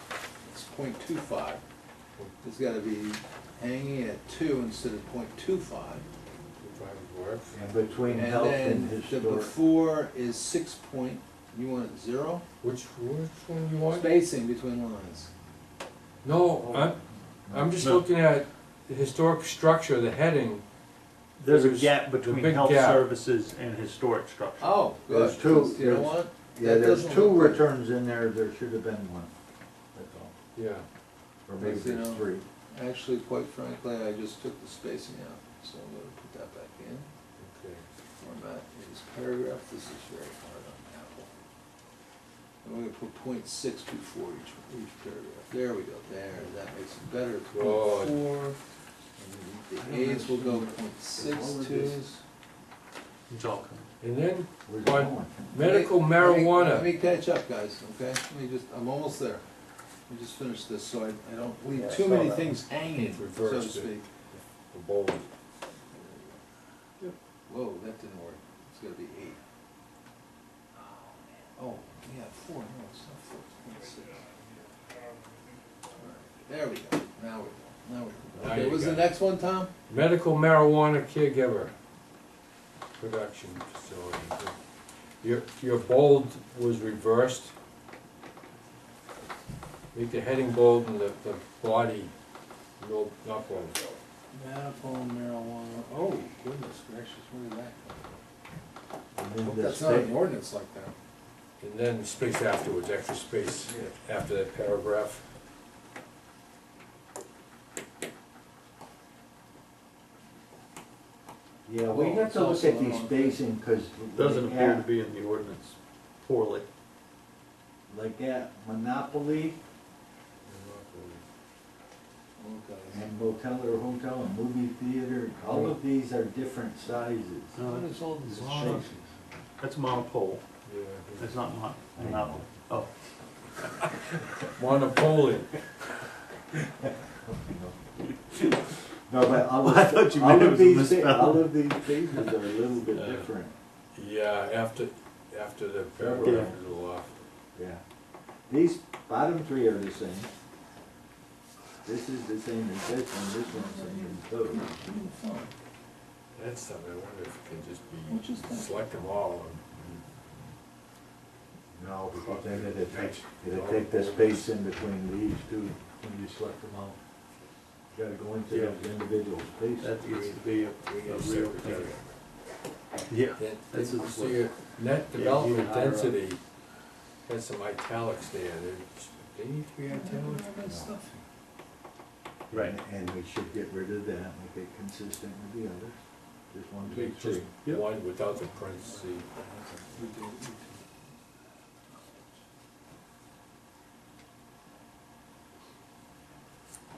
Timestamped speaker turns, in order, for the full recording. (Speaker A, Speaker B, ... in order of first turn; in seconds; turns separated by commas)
Speaker A: 0.5-1.6, Speaker A: 2.4-6.1, Speaker B: 6.6-7.5, Speaker C: 7.5-9.5, Speaker A: 8.1-12.4, Speaker B: 12.6-14.2, Speaker A: 13.9-15.3, Speaker B: 16.2-17.0, Speaker C: 16.6-17.8, Speaker B: 17.5-20.6, Speaker D: 17.8-18.1, Speaker D: 21.4-24.9, Speaker B: 21.4-23.1, Speaker A: 24.6-27.7, Speaker C: 25.1-29.3, Speaker C: 29.9-30.4, Speaker B: 30.6-30.9, Speaker C: 31.5-32.5, Speaker A: 31.6-37.1, Speaker B: 37.4-37.9, Speaker A: 38.2-41.3, Speaker A: 42.6-48.6, Speaker B: 47.5-48.2, Speaker A: 49.2-52.2, Speaker C: 49.8-52.1, Speaker D: 53.3-53.9, Speaker B: 54.0-56.9, Speaker C: 54.7-55.5, Speaker A: 55.6-59.4, Speaker A: 60.1-64.1, Speaker D: 61.8-62.5, Speaker B: 62.9-65.3, Speaker A: 65.9-66.4, Speaker A: 67.5-69.4, Speaker A: 70.8-74.2, Speaker A: 76.0-79.7, Speaker B: 78.4-79.1, Speaker B: 79.9-81.7, Speaker B: 83.0-84.6, Speaker B: 85.2-87.5, Speaker B: 89.9-92.1, Speaker B: 92.8-93.8, Speaker A: 94.3-98.2, Speaker C: 99.2-100.2, Speaker A: 99.4-101.0, Speaker B: 101.6-105.2, Speaker C: 111.7-114.9, Speaker A: 111.9-113.4, Speaker D: 114.2-116.7, Speaker C: 117.9-119.6, Speaker B: 120.5-121.2, Speaker A: 122.4-123.0, Speaker C: 122.9-127.6, Speaker D: 127.6-128.9, Speaker A: 127.6-128.9, Speaker C: 128.5-129.1, Speaker D: 129.6-130.4, Speaker B: 130.7-131.4, Speaker D: 131.2-132.9, Speaker C: 132.0-132.4, Speaker B: 134.5-135.6, Speaker C: 137.2-137.8, Speaker C: 139.1-143.5, Speaker D: 139.4-142.3, Speaker B: 143.0-143.3, Speaker B: 143.9-147.2, Speaker C: 146.0-146.6, Speaker D: 146.2-146.5, Speaker C: 147.6-147.8, Speaker C: 148.5-150.3, Speaker C: 151.8-154.7, Speaker A: 153.5-155.5, Speaker B: 156.3-160.0, Speaker A: 158.1-158.8, Speaker C: 161.7-167.0, Speaker B: 162.1-164.5, Speaker C: 167.9-170.0, Speaker D: 168.5-168.8, Speaker D: 169.8-171.9, Speaker B: 170.0-172.2, Speaker D: 173.1-174.5, Speaker B: 173.3-176.4, Speaker D: 175.1-176.2, Speaker B: 177.3-180.5, Speaker A: 179.9-181.2, Speaker C: 180.6-180.9, Speaker D: 182.5-182.8, Speaker C: 182.5-186.0, Speaker C: 186.5-187.5, Speaker B: 186.8-189.3, Speaker A: 188.8-190.9